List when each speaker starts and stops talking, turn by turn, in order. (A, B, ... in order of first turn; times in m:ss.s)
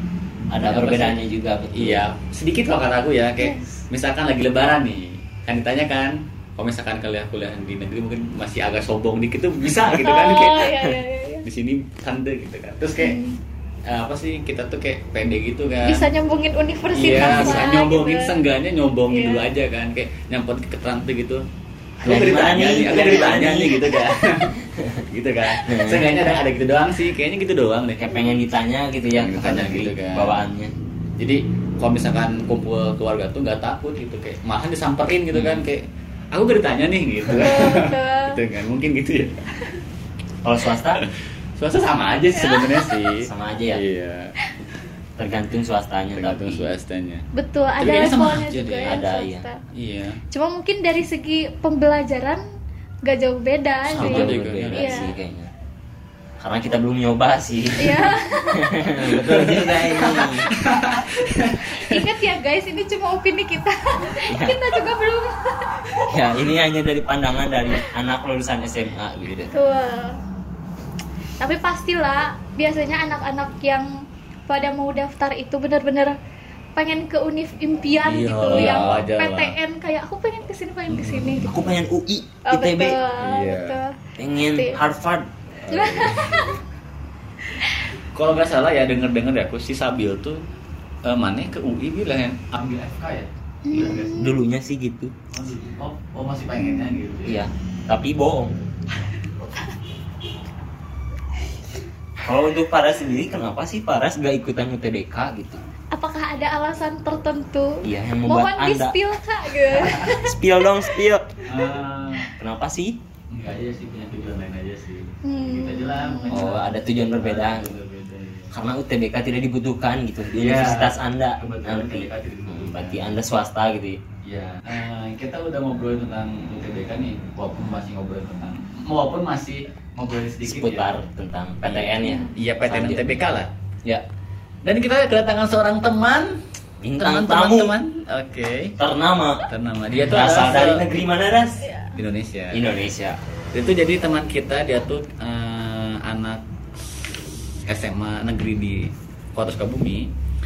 0:00.5-0:01.2 A
0:00.5-0:02.1 B
0:01.7-0:10.9 A
0:03.4-0:03.7 C
0:10.0-0:11.4 C
0:11.4-0:13.2 A
0:13.0-0:13.4 C
0:13.9-0:16.1 A
0:15.8-0:18.4 C
0:16.9-0:21.5 A
0:17.2-0:17.5 B
0:19.1-0:19.5 C
0:22.0-0:28.1 A
0:22.0-0:24.0 B
0:25.5-0:26.3 B
0:28.0-0:30.7 B
0:29.1-0:30.4 A
0:31.2-0:39.4 A
0:35.3-0:35.6 B
0:37.4-0:38.4 C
0:40.4-0:41.0 B
0:41.0-0:44.3 A
0:42.3-0:43.0 C
0:43.2-0:43.8 B
0:45.2-0:46.7 B
0:46.1-0:47.3 A
0:47.3-0:49.6 C
0:47.8-0:49.0 A
0:48.8-0:49.5 B
0:49.7-0:50.2 A
0:50.3-0:52.4 C
0:53.0-0:55.1 C
0:53.9-0:55.5 B
0:53.9-0:55.1 A
0:56.4-1:00.5 B
0:57.8-0:58.7 C
0:59.0-1:02.0 A
1:01.6-1:05.8 C
1:04.3-1:04.6 B
1:06.1-1:09.5 B
1:09.5-1:10.2 C
1:11.4-1:13.9 C
1:14.5-1:16.2 C
1:16.8-1:21.5 C
1:18.0-1:19.6 A
1:18.4-1:19.1 B
1:20.9-1:21.8 A
1:21.4-1:23.0 B
1:22.4-1:24.8 C
1:23.2-1:23.8 A
1:24.2-1:25.3 B
1:25.6-1:26.6 A
1:25.7-1:26.6 C
1:27.6-1:27.9 C
1:28.1-1:30.4 A
1:31.0-1:34.2 A
1:33.7-1:34.3 C
1:33.7-1:35.1 B
1:35.3-1:37.4 A
1:37.2-1:38.6 B
1:42.2-1:45.6 B
1:45.9-1:50.4 C
1:47.8-1:49.0 B
1:49.8-1:51.3 B
1:51.5-1:52.3 A
1:52.4-1:53.0 B
1:53.3-1:58.5 A
1:55.2-1:56.5 C
1:56.3-1:57.8 B
1:58.5-2:04.0 B
2:00.4-2:03.2 A
2:04.2-2:11.0 A
2:10.4-2:13.0 B
2:11.6-2:13.5 A
2:12.0-2:12.3 C
2:14.6-2:16.4 A
2:16.8-2:17.8 B
2:17.0-2:18.8 A
2:18.8-2:21.6 B
2:19.5-2:20.8 A
2:21.6-2:22.0 C
2:22.0-2:22.7 A
2:22.5-2:23.2 B
2:23.5-2:26.4 A
2:27.6-2:30.1 A